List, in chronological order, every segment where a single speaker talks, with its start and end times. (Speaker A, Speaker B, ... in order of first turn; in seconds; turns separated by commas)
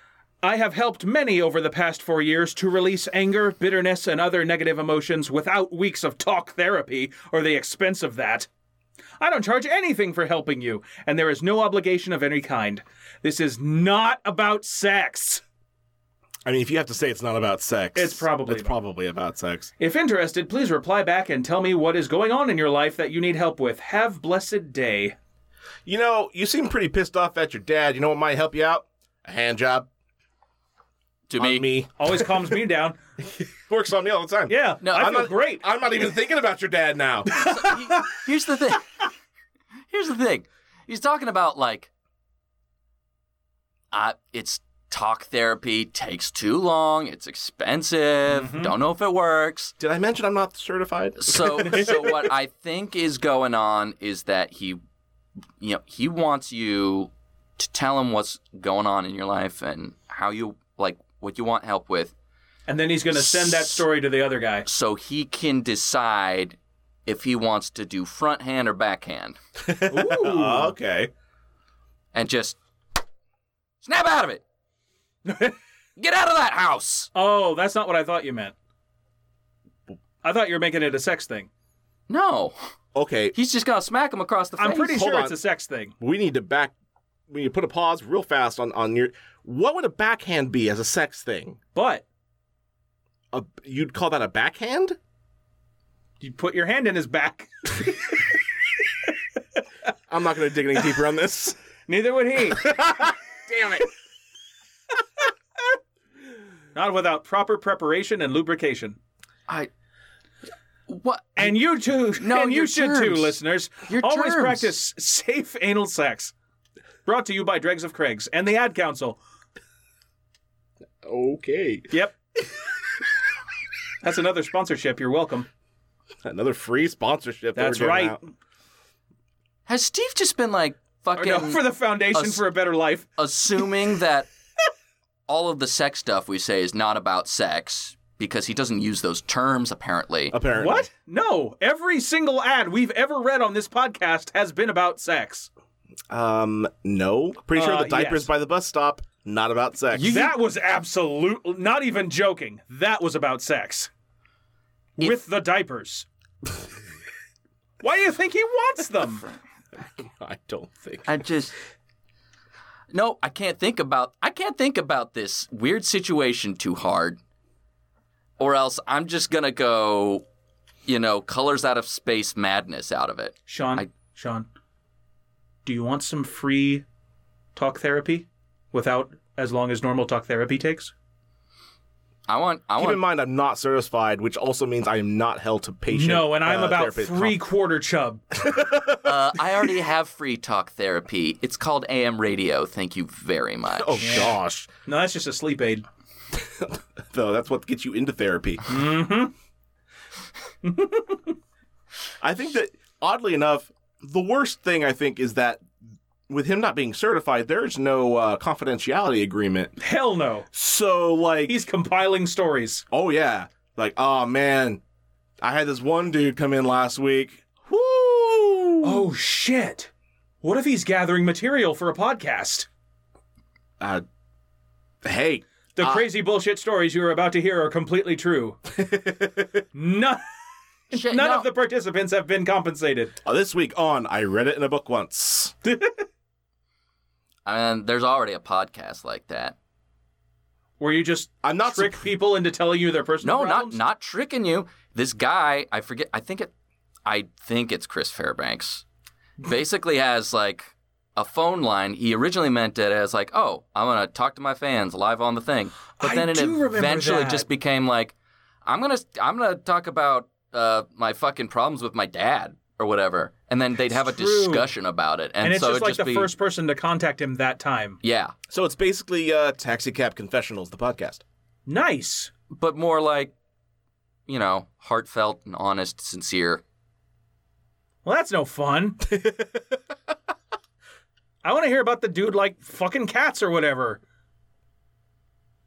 Speaker A: 0.4-8.5, Speaker A: 9.2-15.4, Speaker B: 16.4-19.7, Speaker A: 17.9-18.8, Speaker A: 19.8-25.2, Speaker B: 25.9-29.9, Speaker C: 31.3-31.7, Speaker B: 31.4-32.2, Speaker A: 32.0-33.0, Speaker B: 33.7-37.4, Speaker A: 34.5-35.6, Speaker C: 34.8-35.2, Speaker A: 37.4-38.1, Speaker C: 37.4-39.1, Speaker C: 39.9-41.9, Speaker C: 43.9-49.7, Speaker A: 48.3-48.7, Speaker B: 49.8-52.3, Speaker C: 51.2-54.8, Speaker C: 55.6-62.1, Speaker A: 62.7-64.7, Speaker C: 63.2-63.8, Speaker C: 64.7-69.4, Speaker B: 69.6-71.1, Speaker A: 69.9-70.7, Speaker C: 72.1-72.6, Speaker C: 73.8-74.4, Speaker A: 75.3-75.6, Speaker C: 76.0-77.1, Speaker A: 77.1-78.5, Speaker A: 80.2-81.5, Speaker C: 82.1-82.6, Speaker B: 83.0-83.3, Speaker C: 83.3-85.0, Speaker A: 84.6-85.9, Speaker B: 84.8-85.4, Speaker B: 86.0-86.7, Speaker B: 87.3-91.6, Speaker A: 91.8-92.0, Speaker B: 93.3-95.0, Speaker A: 96.2-98.2, Speaker B: 100.1-101.6, Speaker A: 101.9-102.7, Speaker B: 102.6-103.9, Speaker A: 106.8-109.0, Speaker C: 110.9-114.8, Speaker A: 111.4-116.3, Speaker A: 117.0-119.2, Speaker B: 121.0-121.9, Speaker A: 121.9-122.2, Speaker A: 124.0-125.5, Speaker B: 126.2-128.2, Speaker A: 127.5-128.3, Speaker C: 129.7-132.4, Speaker A: 131.2-133.1, Speaker C: 133.2-134.3, Speaker C: 135.3-140.4, Speaker B: 140.3-140.9, Speaker A: 140.6-145.5, Speaker B: 146.1-150.2, Speaker A: 147.5-148.3, Speaker C: 149.9-150.3, Speaker A: 150.0-153.9, Speaker A: 155.0-156.1, Speaker A: 157.8-159.2, Speaker B: 159.8-161.2, Speaker C: 161.1-161.6, Speaker C: 162.9-167.2, Speaker C: 168.4-170.2, Speaker C: 170.9-173.9, Speaker A: 173.5-174.5, Speaker A: 175.7-176.8, Speaker A: 177.6-180.9, Speaker C: 182.3-183.0, Speaker B: 182.8-187.4, Speaker A: 185.9-188.2, Speaker B: 188.3-189.1, Speaker C: 189.0-194.2, Speaker B: 193.7-194.7, Speaker A: 194.0-194.3, Speaker A: 194.9-195.8, Speaker B: 196.3-198.7, Speaker A: 198.7-199.3, Speaker A: 200.6-201.4, Speaker B: 202.2-205.6, Speaker B: 206.3-209.8, Speaker A: 209.8-210.5, Speaker B: 210.5-211.6, Speaker A: 211.5-212.8, Speaker B: 212.9-214.8, Speaker B: 215.4-219.1, Speaker A: 218.8-219.9, Speaker A: 220.4-222.7, Speaker B: 223.8-224.1, Speaker B: 225.0-226.0, Speaker A: 225.8-228.6, Speaker B: 228.7-229.6, Speaker A: 229.7-230.2, Speaker A: 230.9-233.2, Speaker C: 230.9-231.5, Speaker B: 233.2-235.6, Speaker A: 235.7-236.1, Speaker C: 237.5-239.6, Speaker A: 240.8-243.8, Speaker B: 241.4-242.1, Speaker C: 243.2-246.5, Speaker C: 247.1-248.8, Speaker C: 249.4-258.1, Speaker A: 256.0-257.5, Speaker C: 258.6-266.3, Speaker A: 263.9-264.7, Speaker A: 265.4-268.0, Speaker C: 268.0-268.4, Speaker B: 268.5-271.2, Speaker A: 271.7-272.3, Speaker C: 272.5-273.3, Speaker C: 274.3-276.6, Speaker A: 278.1-279.0, Speaker B: 279.1-279.6, Speaker A: 281.4-284.0